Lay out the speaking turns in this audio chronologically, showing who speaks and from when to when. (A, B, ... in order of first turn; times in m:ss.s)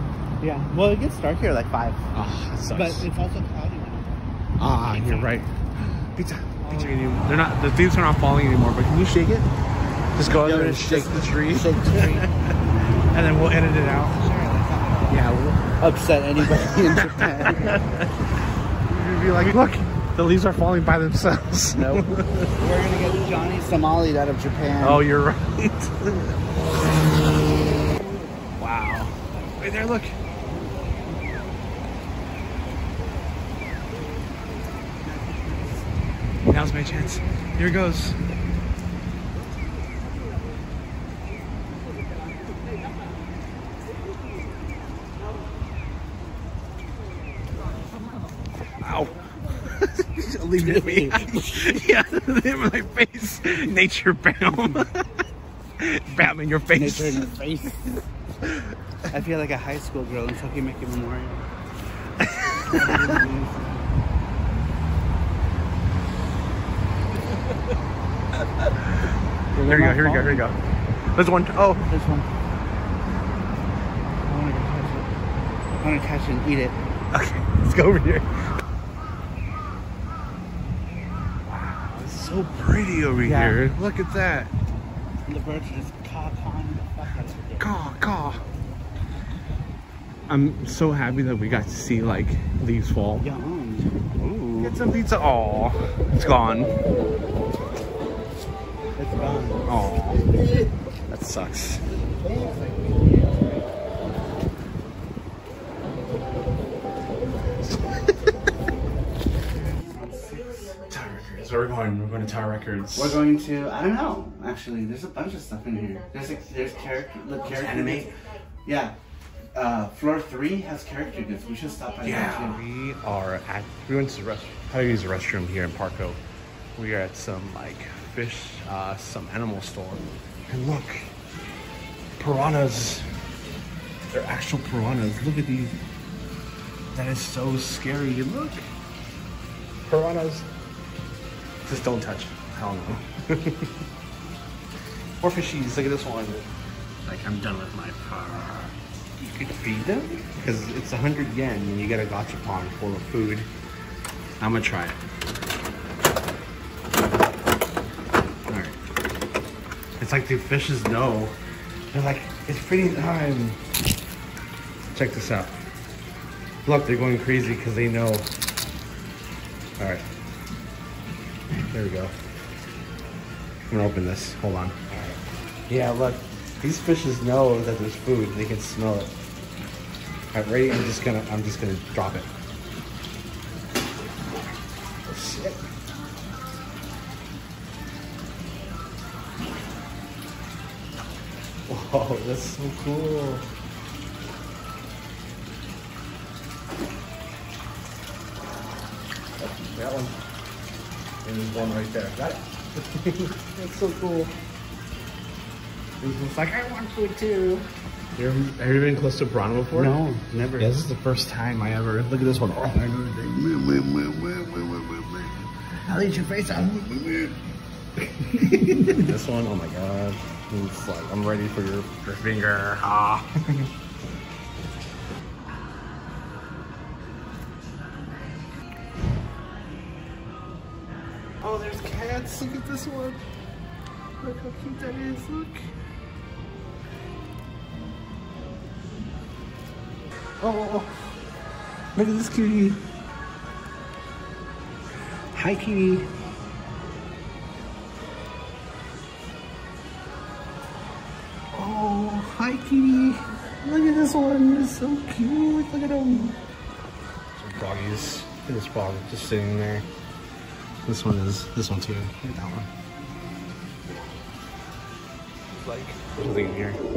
0:00.4-0:02.1 A
0:02.1-0:03.1 B
0:02.7-0:04.3 A
0:04.6-0:05.5 B
0:04.8-0:05.3 A
0:06.1-0:09.2 B
0:06.6-0:07.4 A
0:09.1-0:09.5 A
0:10.2-0:12.6 B
0:10.2-0:12.4 A
0:13.1-0:14.2 B
0:13.8-0:18.2 A
0:15.1-0:15.8 B
0:16.5-0:18.1 B
0:18.9-0:22.6 B
0:21.7-0:25.0 A
0:24.8-0:26.4 B
0:28.6-0:30.2 B
0:35.2-0:35.8 A
0:36.5-0:38.2 B
0:48.8-0:55.0 B
0:50.6-0:51.8 A
0:55.8-0:57.3 B
0:56.7-0:58.0 A
0:59.1-1:01.5 A
1:02.2-1:03.2 B
1:02.7-1:03.9 A
1:08.6-1:08.9 B
1:09.5-1:10.5 A
1:09.6-1:10.6 B
1:11.1-1:11.9 B
1:11.9-1:12.3 A
1:14.2-1:15.1 A
1:15.8-1:16.8 A
1:17.1-1:18.3 B
1:21.5-1:24.5 B
1:23.2-1:23.6 A
1:25.3-1:27.7 A
1:27.6-1:28.4 B
1:30.3-1:33.3 B
1:33.2-1:33.9 A
1:34.2-1:36.8 B
1:39.0-1:39.8 A
1:39.7-1:40.3 B
1:41.1-1:41.8 B
1:42.2-1:43.9 A
1:49.5-1:50.8 A
1:50.9-1:53.2 B
1:52.9-1:58.1 A
1:57.5-1:58.1 B
1:58.6-1:59.0 A
1:59.5-2:02.6 A
2:02.0-2:06.2 B
2:06.8-2:11.1 B
2:12.2-2:13.1 B
2:14.1-2:15.8 B
2:16.9-2:18.7 B
2:19.8-2:20.5 B
2:21.6-2:23.7 B
2:25.2-2:26.5 B
2:27.0-2:33.5 B
2:34.4-2:35.0 B
2:38.5-2:38.8 B
2:40.0-2:41.4 B
2:41.9-2:43.6 B
2:44.9-2:45.6 B
2:46.6-2:48.3 B
2:49.8-2:50.0 B
2:51.7-2:52.2 B
2:53.7-2:55.1 B
2:55.7-2:59.1 B
3:00.3-3:02.3 B
3:05.1-3:05.6 B
3:11.7-3:13.5 B
3:19.4-3:20.2 B
3:21.2-3:24.4 B
3:26.0-3:29.9 B
3:29.7-3:30.7 A
3:30.6-3:33.6 B
3:33.7-3:34.4 A
3:34.6-3:35.2 B
3:36.0-3:37.3 A
3:38.4-3:43.7 B
3:51.4-3:53.2 B
3:54.2-3:55.7 B
4:00.4-4:01.1 B
4:02.0-4:02.7 B
4:05.4-4:06.0 A
4:11.6-4:12.1 B
4:12.2-4:13.0 A
4:13.6-4:16.3 B
4:17.4-4:19.9 B
4:20.8-4:22.7 B
4:25.6-4:26.8 B